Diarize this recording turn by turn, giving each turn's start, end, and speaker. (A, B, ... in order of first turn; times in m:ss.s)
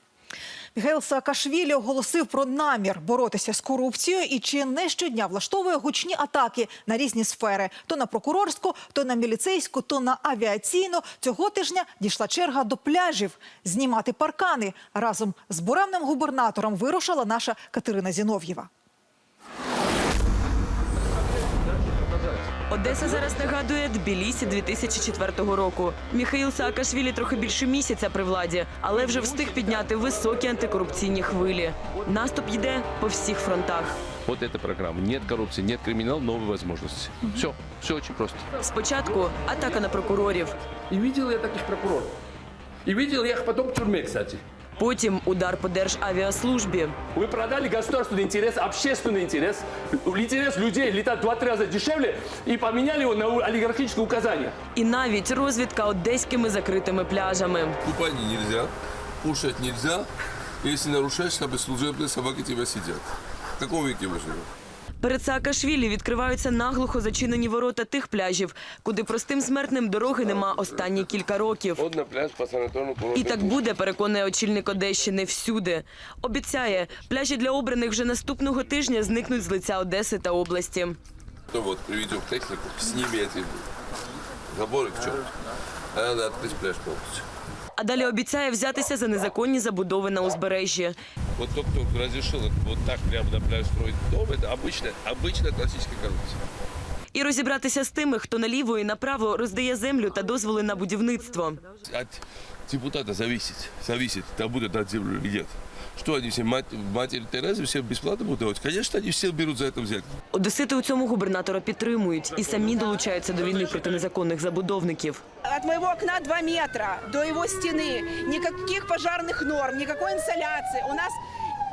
0:00.8-0:18.7 A
0:22.7-0:34.0 B
0:34.3-0:36.5 C
0:37.2-0:38.2 C
0:38.6-0:40.6 B
0:40.9-0:42.1 D
0:42.9-0:44.4 D
0:44.8-0:47.0 B
0:47.2-0:54.5 D
0:54.8-0:57.7 B
0:57.8-1:00.1 E
1:00.6-1:04.5 E
1:05.0-1:11.7 B
1:10.1-1:11.2 E
1:11.8-1:13.6 E
1:13.2-1:21.0 B
1:21.5-1:23.6 E
1:24.5-1:25.3 E
1:25.9-1:27.2 E
1:27.8-1:31.0 B
1:31.4-1:36.4 E
1:37.1-1:41.6 B
1:41.9-1:50.1 E
1:50.3-1:55.2 B
1:55.4-2:01.2 F